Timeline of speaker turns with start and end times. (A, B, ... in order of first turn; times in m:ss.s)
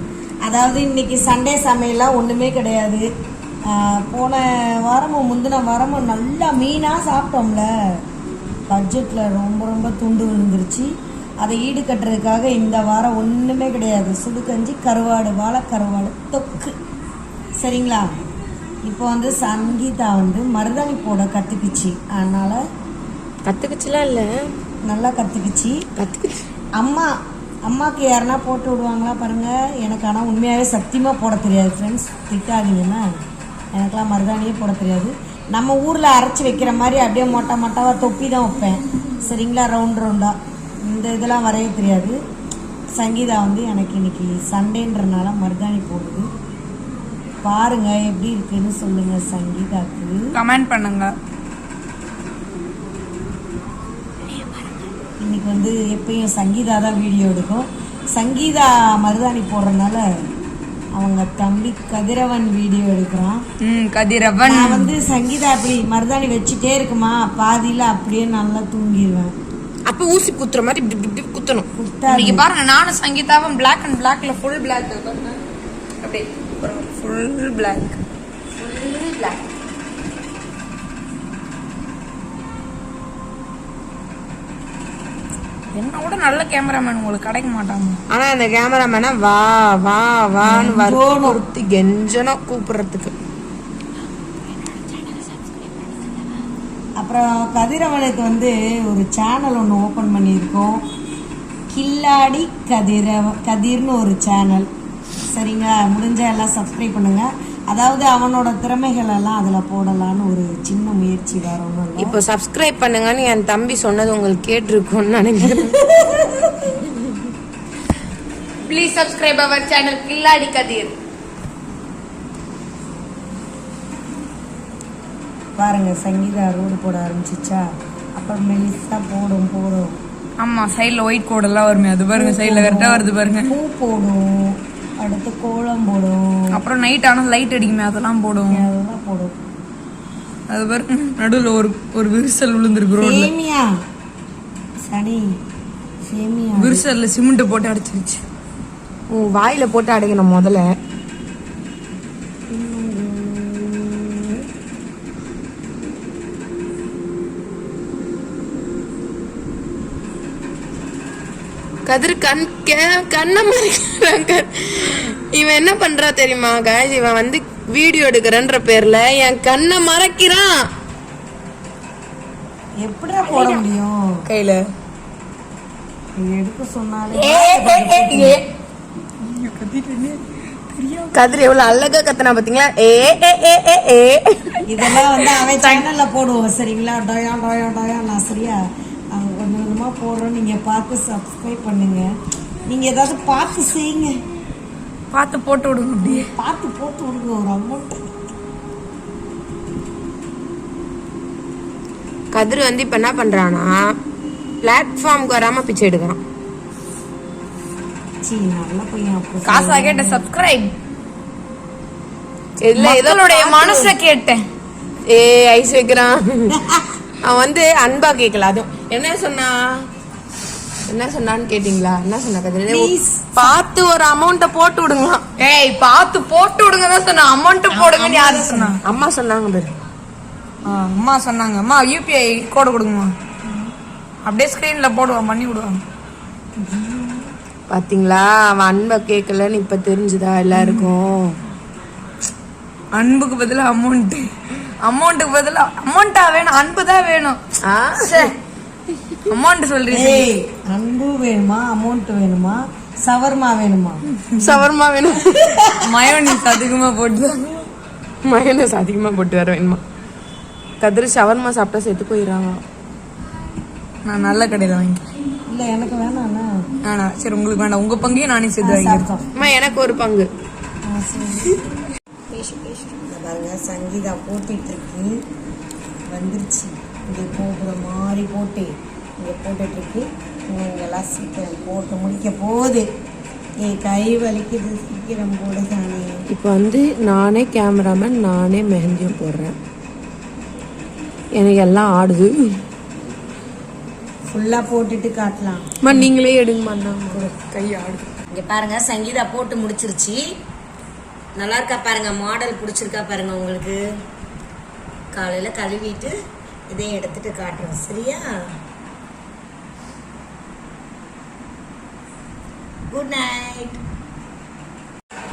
0:00.4-0:03.1 A
0:03.7-0:08.0 A
0:08.7-0:10.9 A
0:11.4-0:16.7 A
0:17.6-0:18.1 A
0:18.8-0:22.6 A
0:23.5-0:24.5 B
0:24.9-0:25.8 A
0:26.0-0:26.4 B
0:26.8-0:27.1 A
0:27.7-0:33.0 A
0:33.7-0:40.4 A
0:40.9-0:42.2 A
0:43.0-0:46.3 A
0:47.4-0:50.2 A
0:50.3-0:51.1 C
0:55.2-1:00.0 A
1:01.0-1:03.4 A
1:03.6-1:04.9 C
1:04.5-1:09.3 A
1:09.9-1:11.7 B
1:11.8-1:12.5 A
1:12.1-1:15.4 C
1:16.0-1:18.0 C
1:18.6-1:19.4 C
1:25.7-1:28.0 C
1:28.1-1:33.1 B
1:30.4-1:31.4 A
1:34.7-1:35.9 C
1:37.0-1:40.8 A
1:41.7-1:44.7 A
1:45.3-1:52.2 A
1:52.0-1:55.8 B
1:55.5-1:56.7 A
1:58.7-2:00.9 B
2:05.6-2:07.7 A
2:08.2-2:10.0 A
2:10.4-2:13.5 C
2:12.1-2:16.6 A
2:16.5-2:18.7 C
2:18.5-2:19.3 A
2:20.5-2:23.3 C
2:23.0-2:23.7 A
2:24.9-2:25.3 A
2:26.1-2:26.8 A
2:26.6-2:28.2 C
2:29.1-2:30.7 B
2:32.5-2:34.4 A
2:41.9-2:50.5 B
2:52.8-2:54.0 A
2:53.2-2:53.6 C
2:54.3-2:54.6 C
2:56.2-2:58.4 A
2:57.1-2:58.4 B
2:59.2-3:01.4 C
3:01.1-3:05.1 B
3:04.7-3:08.6 A
3:05.5-3:05.8 C
3:09.1-3:12.1 A
3:12.7-3:14.2 A
3:15.1-3:16.3 C
3:16.0-3:18.0 A
3:22.3-3:23.8 B
3:24.6-3:26.2 B
3:28.2-3:30.3 A
3:29.4-3:30.7 C
3:32.6-3:33.9 B
3:32.8-3:34.4 C
3:35.1-3:36.6 B
3:36.6-3:36.8 A
3:37.2-3:39.9 B
3:40.9-3:45.3 B
3:42.7-3:43.6 A
3:45.4-3:48.8 C
3:47.8-3:48.8 A
3:48.8-3:49.7 B
3:50.6-3:53.1 C
3:54.3-3:55.8 C
3:56.6-3:57.3 A
3:57.7-4:01.4 B
4:00.6-4:00.8 A
4:02.9-4:04.3 C
4:04.8-4:07.4 C
4:07.6-4:08.3 B
4:08.0-4:08.3 C
4:09.3-4:10.3 C
4:09.9-4:14.0 A
4:14.2-4:14.6 C
4:14.4-4:15.6 B
4:15.3-4:16.3 A
4:15.7-4:17.7 C
4:18.2-4:19.8 B
4:20.8-4:22.6 B
4:24.0-4:25.0 C
4:25.5-4:26.5 A
4:26.8-4:29.0 C
4:28.6-4:29.3 A
4:29.4-4:30.3 B
4:30.8-4:31.6 A
4:32.3-4:35.1 A
4:36.1-4:42.9 A
4:43.6-4:46.2 A
4:46.3-4:49.6 B
4:51.4-4:52.3 B
4:54.3-4:55.9 A
4:55.8-4:57.9 B
4:57.1-4:57.6 A
4:58.3-5:00.2 A
5:01.4-5:03.8 A
5:05.1-5:06.1 A
5:06.7-5:08.3 A
5:12.9-5:13.8 A